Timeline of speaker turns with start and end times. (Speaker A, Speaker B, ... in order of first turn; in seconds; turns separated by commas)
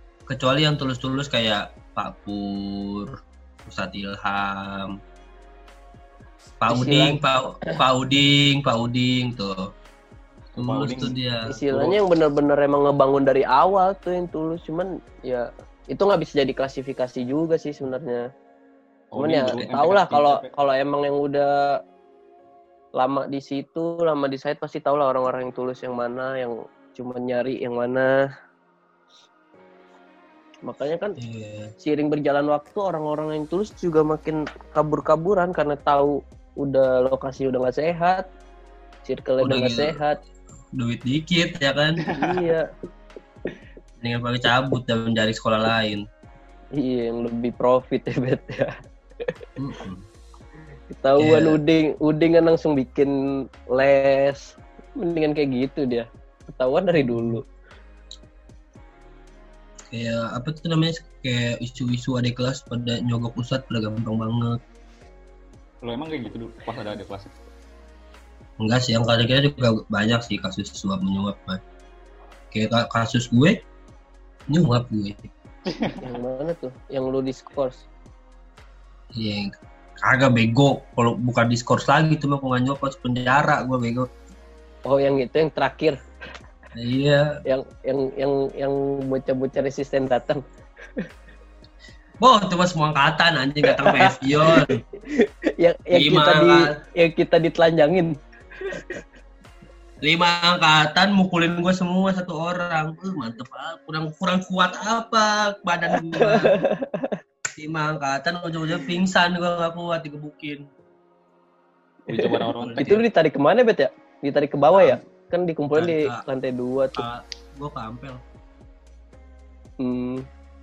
Speaker A: 0.3-5.0, Speaker A: 6.6-9.7, Speaker B: 6.7-7.8, Speaker C: 10.6-12.0, Speaker A: 10.6-11.6, Speaker B: 11.5-18.2, Speaker C: 19.1-20.5, Speaker B: 19.2-21.8, Speaker B: 22.9-28.2, Speaker B: 30.6-31.2, Speaker A: 31.2-31.7, Speaker B: 31.8-38.2, Speaker B: 39.0-40.2, Speaker A: 39.4-40.0, Speaker A: 40.8-42.0, Speaker C: 42.0-42.4, Speaker B: 42.1-42.7, Speaker A: 44.0-46.0, Speaker B: 46.8-49.4, Speaker A: 49.6-50.0, Speaker B: 50.9-53.2, Speaker A: 51.2-51.6, Speaker B: 53.7-57.5, Speaker A: 59.9-64.6, Speaker C: 65.8-67.3, Speaker A: 68.6-71.6, Speaker A: 72.5-73.6, Speaker A: 74.5-75.3, Speaker C: 75.7-76.1, Speaker B: 76.0-77.8, Speaker A: 79.2-79.5, Speaker A: 80.0-84.1, Speaker B: 84.9-86.0, Speaker A: 86.8-87.4, Speaker B: 87.5-90.4, Speaker A: 92.2-94.8, Speaker B: 93.6-99.0, Speaker A: 95.9-96.8, Speaker A: 100.0-106.6, Speaker B: 106.0-107.2, Speaker A: 107.6-110.6, Speaker C: 112.1-113.0, Speaker B: 112.1-117.1, Speaker A: 112.6-113.0, Speaker A: 115.7-116.2, Speaker A: 117.0-118.2, Speaker B: 119.8-120.2